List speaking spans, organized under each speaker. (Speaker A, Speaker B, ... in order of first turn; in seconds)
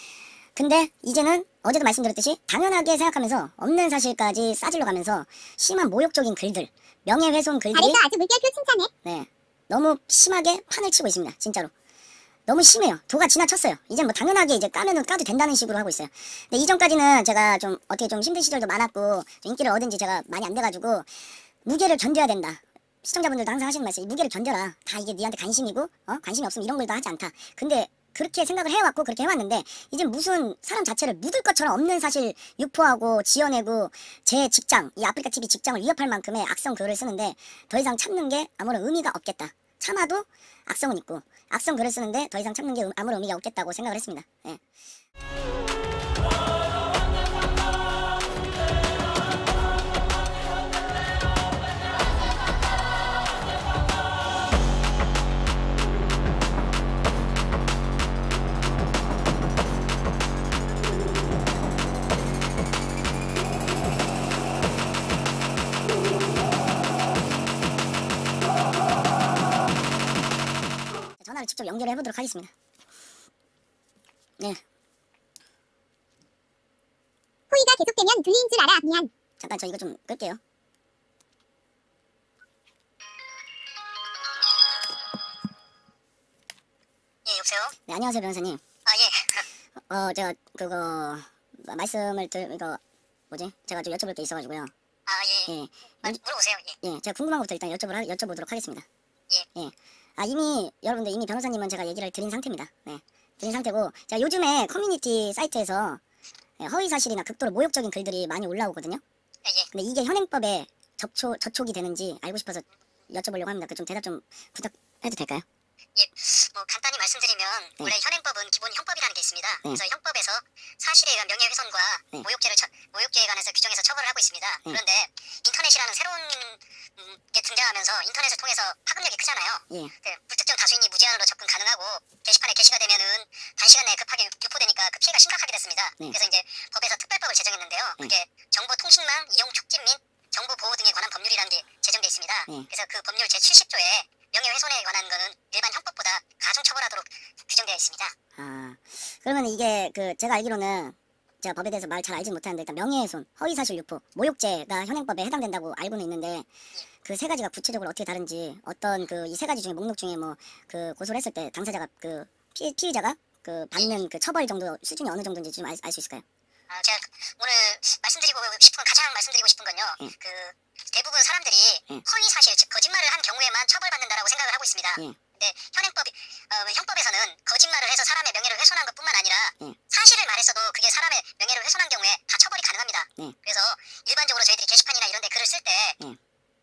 Speaker A: 0.6-8.0, 9.0-11.7, 12.5-21.1, 21.6-44.6, 71.2-72.5, 79.4-80.4, 87.9-88.6, 89.9-92.8, 93.3-94.7, 95.5-96.2, 96.8-98.8, 99.5-106.0, 106.6-109.0, 109.7-115.4, 148.4-156.5, 157.0-166.2
Speaker B: 7.7-8.9, 77.5-79.1
Speaker C: 87.2-87.8, 88.8-89.5, 95.1-96.8, 109.4-109.7, 115.9-148.2, 166.7-186.0